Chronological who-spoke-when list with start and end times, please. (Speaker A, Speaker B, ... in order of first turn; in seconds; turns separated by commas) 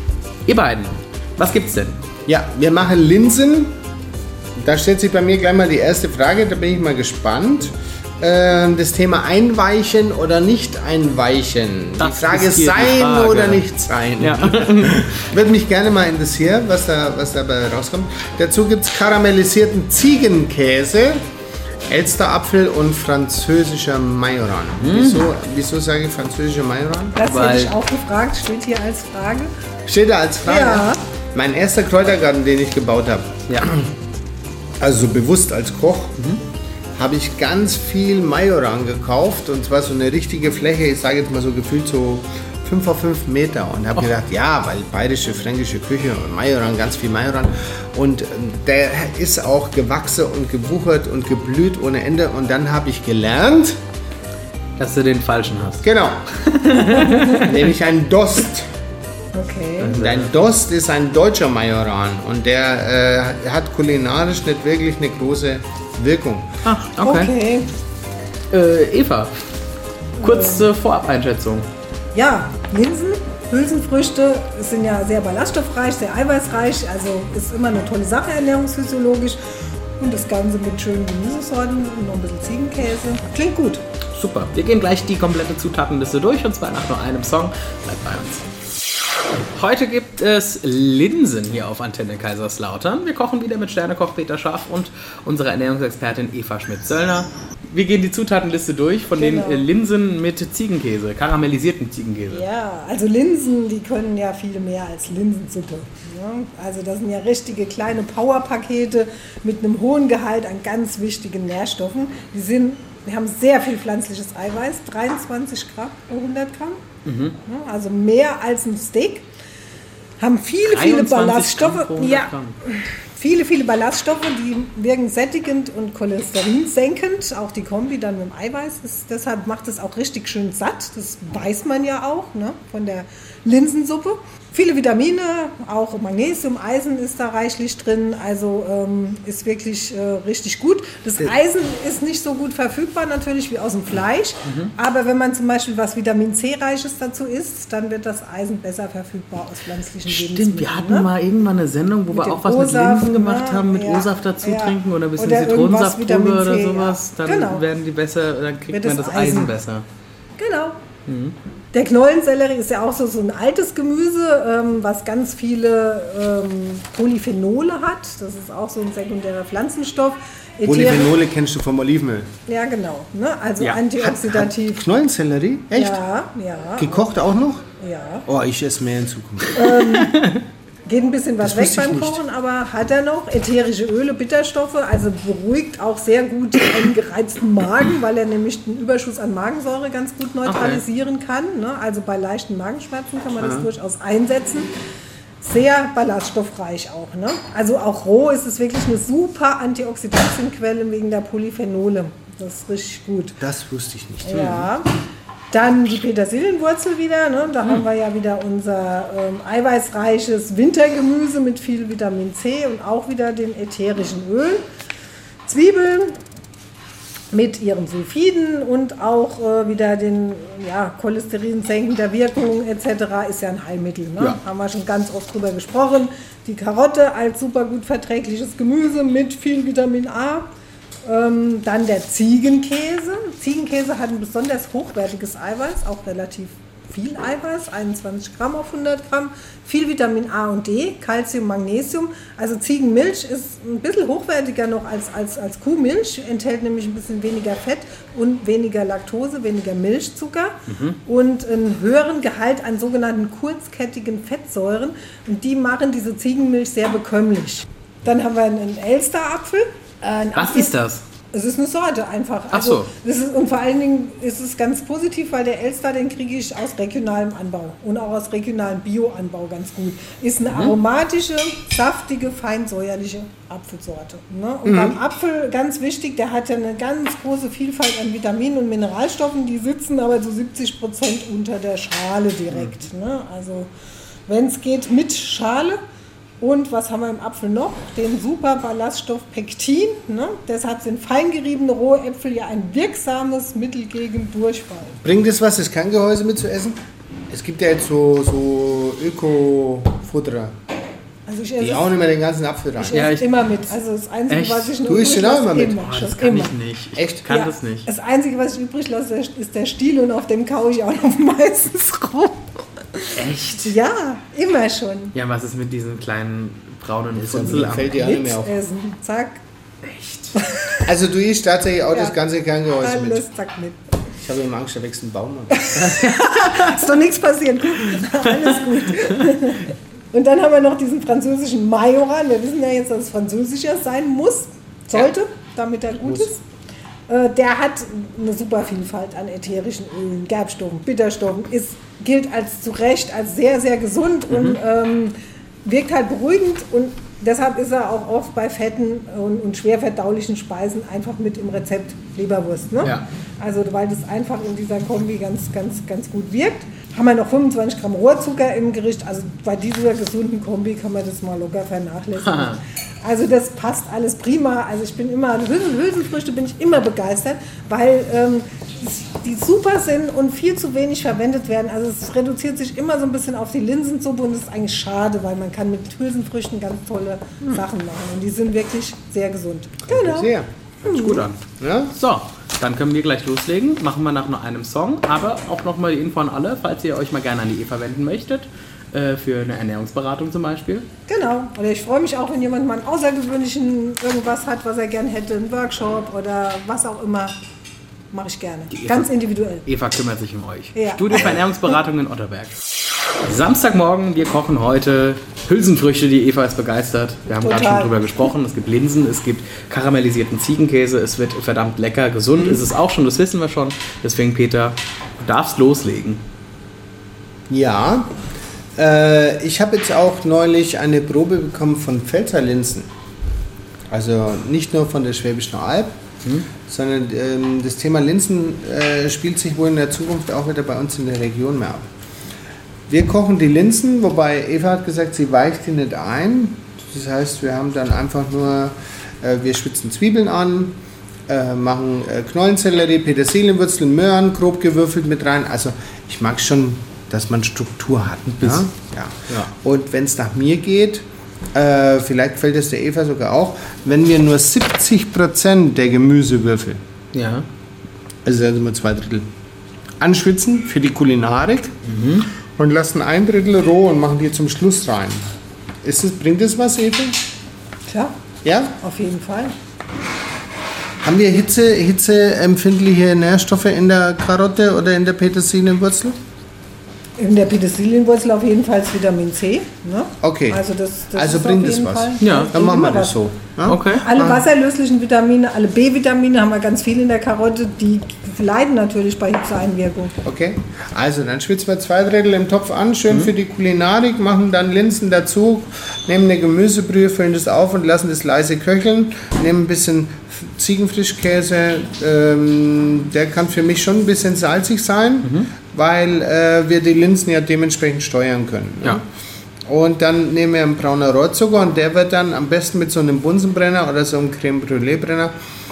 Speaker A: 0.5-2.0, Speaker B: 2.2-3.7, Speaker B: 4.6-21.2, Speaker A: 12.0-13.6, Speaker A: 14.2-15.0, Speaker B: 21.9-27.2, Speaker A: 24.8-25.3, Speaker C: 27.1-29.5, Speaker A: 27.2-27.7, Speaker B: 29.9-33.9, Speaker C: 30.4-31.0, Speaker B: 34.8-36.2, Speaker B: 37.0-53.8, Speaker A: 54.8-55.8, Speaker B: 55.8-56.3, Speaker A: 56.4-57.7, Speaker B: 57.4-58.7, Speaker C: 59.3-60.0, Speaker A: 59.8-60.3, Speaker B: 59.9-66.5, Speaker A: 66.6-67.3, Speaker C: 67.0-67.7, Speaker A: 68.5-69.3, Speaker A: 70.2-71.7, Speaker C: 70.2-70.7, Speaker C: 72.1-79.4, Speaker C: 80.0-83.8, Speaker A: 84.1-88.4, Speaker A: 89.5-102.4, Speaker C: 99.2-99.7, Speaker C: 102.3-116.8, Speaker A: 117.0-117.4, Speaker C: 117.4-119.3, Speaker C: 120.2-151.1, Speaker A: 120.6-122.5, Speaker A: 144.4-144.7, Speaker A: 150.1-159.8, Speaker C: 152.1-157.7, Speaker C: 158.7-159.5, Speaker C: 160.4-160.8, Speaker A: 161.1-161.3, Speaker C: 161.7-171.1, Speaker B: 170.6-172.3, Speaker C: 172.5-174.9, Speaker B: 174.0-176.0, Speaker C: 175.7-177.2, Speaker B: 176.8-177.6, Speaker C: 177.8-178.3, Speaker B: 178.2-179.6, Speaker C: 179.5-180.2, Speaker A: 179.7-180.4, Speaker C: 180.8-194.7, Speaker B: 181.4-182.2, Speaker A: 190.4-190.8, Speaker B: 193.4-193.7, Speaker C: 195.4-203.4, Speaker B: 203.4-204.7, Speaker C: 204.2-204.9, Speaker C: 205.5-214.6, Speaker C: 215.4-216.2, Speaker C: 217.3-230.5, Speaker C: 231.0-260.8, Speaker A: 250.7-251.0, Speaker A: 260.3-261.0, Speaker C: 261.3-283.7, Speaker A: 262.5-262.9, Speaker A: 270.5-270.8, Speaker B: 274.6-274.9, Speaker C: 284.3-285.8, Speaker C: 286.4-295.0, Speaker B: 295.0-296.8, Speaker B: 297.3-300.5, Speaker C: 301.2-301.9, Speaker B: 301.6-303.1, Speaker C: 302.8-306.6, Speaker A: 302.9-303.7, Speaker A: 304.3-304.8, Speaker B: 304.8-305.8, Speaker A: 305.8-307.9, Speaker B: 306.9-307.3, Speaker C: 307.3-315.1, Speaker A: 313.1-313.7, Speaker A: 315.1-318.1, Speaker B: 317.1-318.5, Speaker C: 317.9-319.4, Speaker A: 319.8-320.4, Speaker C: 320.4-320.8, Speaker B: 320.8-323.3, Speaker C: 322.8-323.8, Speaker B: 324.2-325.9, Speaker C: 325.5-336.4, Speaker A: 325.8-326.9, Speaker A: 328.0-329.3, Speaker C: 337.1-380.3, Speaker A: 344.3-344.6, Speaker A: 362.2-362.6, Speaker B: 379.9-380.5, Speaker C: 380.8-381.2, Speaker A: 380.8-381.4, Speaker B: 381.6-381.9, Speaker A: 381.9-390.9, Speaker C: 391.1-397.4, Speaker C: 398.1-399.6, Speaker A: 398.7-399.1, Speaker A: 399.6-402.6, Speaker C: 400.7-401.4, Speaker A: 403.2-416.2, Speaker C: 407.3-408.1, Speaker B: 412.4-412.6, Speaker B: 417.5-418.2, Speaker B: 418.8-422.9, Speaker B: 423.9-425.9, Speaker B: 426.6-431.8, Speaker B: 432.9-440.8, Speaker B: 441.3-456.8, Speaker A: 448.4-448.7, Speaker A: 457.1-457.5, Speaker B: 458.2-459.3, Speaker B: 460.0-461.7, Speaker A: 461.8-462.3, Speaker B: 462.4-465.3, Speaker B: 465.8-467.2, Speaker C: 467.9-468.1, Speaker B: 468.4-468.8, Speaker C: 468.8-469.5, Speaker B: 471.0-476.2, Speaker C: 477.2-483.2, Speaker B: 480.2-480.6, Speaker B: 481.1-484.4, Speaker A: 482.2-482.5, Speaker A: 483.6-484.1, Speaker C: 483.9-490.2, Speaker B: 490.2-509.0, Speaker A: 505.2-505.5, Speaker B: 509.7-515.3